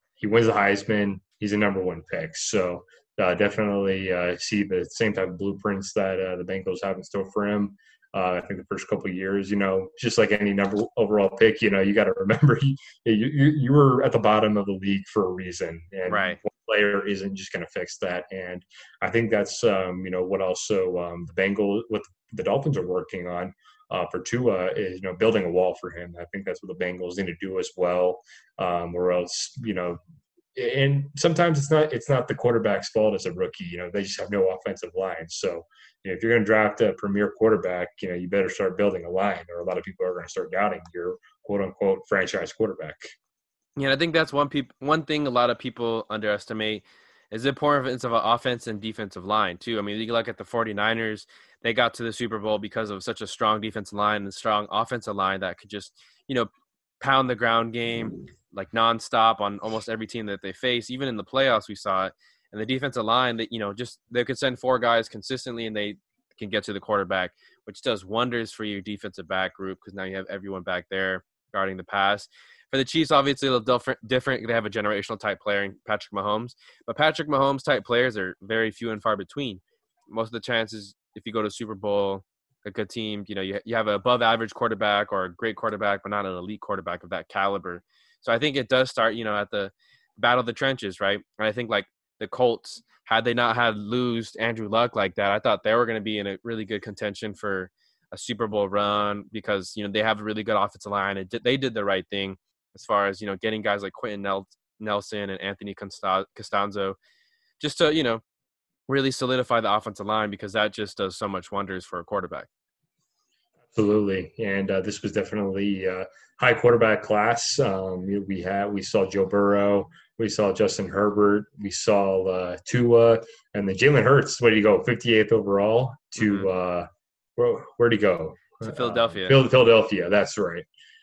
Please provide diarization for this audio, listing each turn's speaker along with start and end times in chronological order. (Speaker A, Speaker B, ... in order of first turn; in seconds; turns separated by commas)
Speaker A: 0.2-30.0, Speaker B: 16.1-16.4, Speaker A: 30.6-43.1, Speaker B: 43.8-107.0, Speaker B: 107.6-108.2, Speaker B: 108.9-112.5, Speaker A: 113.7-130.7, Speaker B: 126.2-126.5, Speaker B: 128.6-129.4